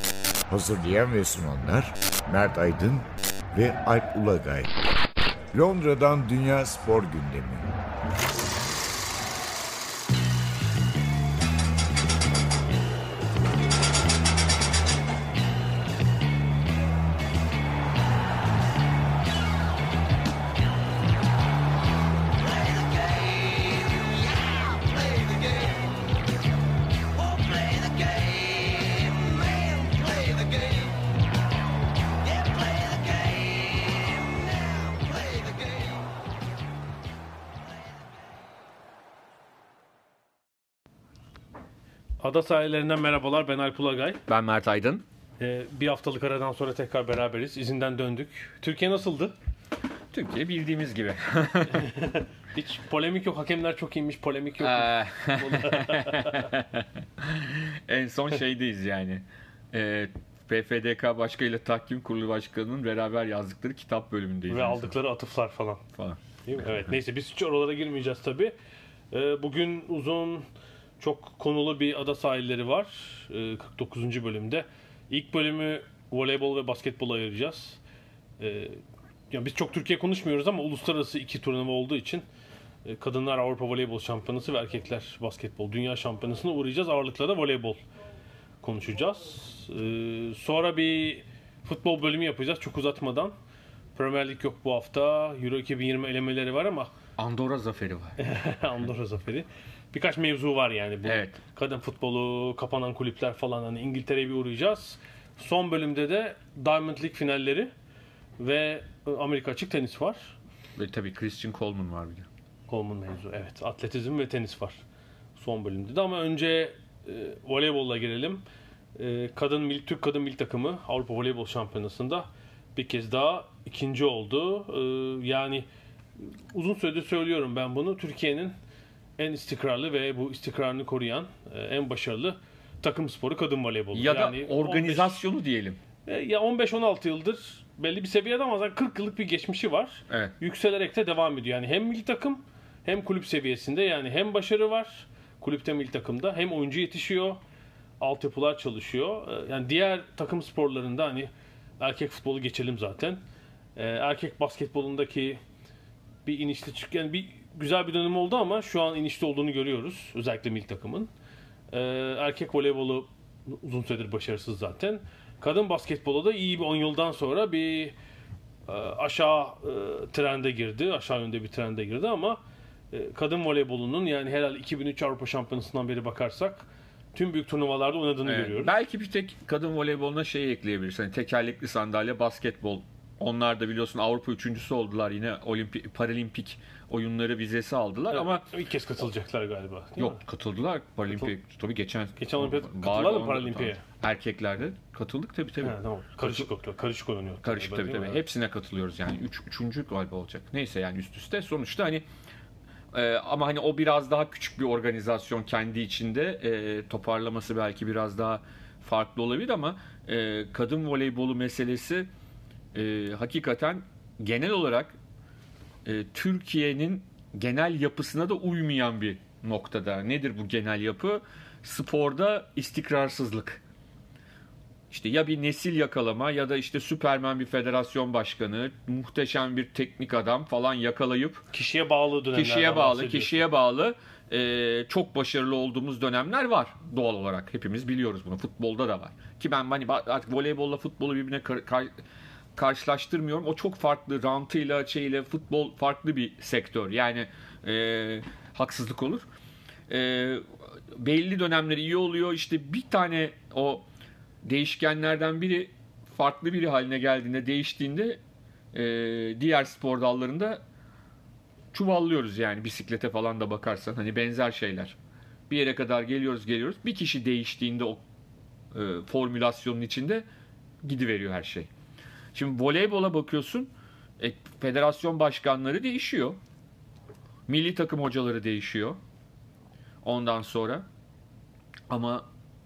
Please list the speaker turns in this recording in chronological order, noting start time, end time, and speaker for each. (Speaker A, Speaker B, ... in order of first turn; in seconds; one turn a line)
Speaker A: 0.5-4.7
Speaker A: 5.5-7.7
Speaker B: 42.2-44.2
Speaker C: 44.3-45.0
Speaker B: 45.4-49.3
Speaker C: 50.1-51.9
Speaker B: 51.7-56.5
Speaker C: 54.6-64.9
Speaker B: 64.5-65.8
Speaker B: 66.5-68.5
Speaker B: 69.1-70.5
Speaker B: 71.0-77.8
Speaker B: 78.4-78.8
Speaker B: 79.3-82.2
Speaker B: 82.8-87.8
Speaker B: 88.6-93.3
Speaker B: 93.9-96.9
Speaker C: 97.2-98.2
Speaker B: 98.2-107.7
Speaker C: 101.1-101.4
Speaker B: 108.4-110.3
Speaker C: 110.8-112.3
Speaker B: 112.7-114.8
Speaker B: 115.4-118.4
Speaker B: 119.0-125.7
Speaker B: 126.2-128.6
Speaker B: 129.2-135.2
Speaker C: 133.9-135.8
Speaker B: 136.1-147.4
Speaker B: 148.0-153.2
Speaker B: 153.8-155.4
Speaker B: 156.2-161.1
Speaker B: 161.7-168.0
Speaker B: 168.7-172.4
Speaker B: 172.9-178.7
Speaker C: 178.2-188.5
Speaker B: 188.1-190.2
Speaker C: 190.0-196.5
Speaker B: 192.2-193.8
Speaker B: 195.6-198.2
Speaker C: 197.4-202.0
Speaker C: 202.9-212.1
Speaker C: 212.7-215.0
Speaker C: 215.8-223.6
Speaker C: 224.9-231.5
Speaker B: 231.5-233.4
Speaker C: 232.3-241.9
Speaker C: 242.6-249.2
Speaker C: 249.9-253.9
Speaker C: 254.4-258.2
Speaker C: 258.7-260.6
Speaker C: 261.7-264.9
Speaker C: 265.5-268.0
Speaker C: 268.7-270.2
Speaker C: 270.8-271.7
Speaker C: 272.3-276.4
Speaker C: 277.5-279.0
Speaker C: 280.0-280.9
Speaker C: 281.9-282.3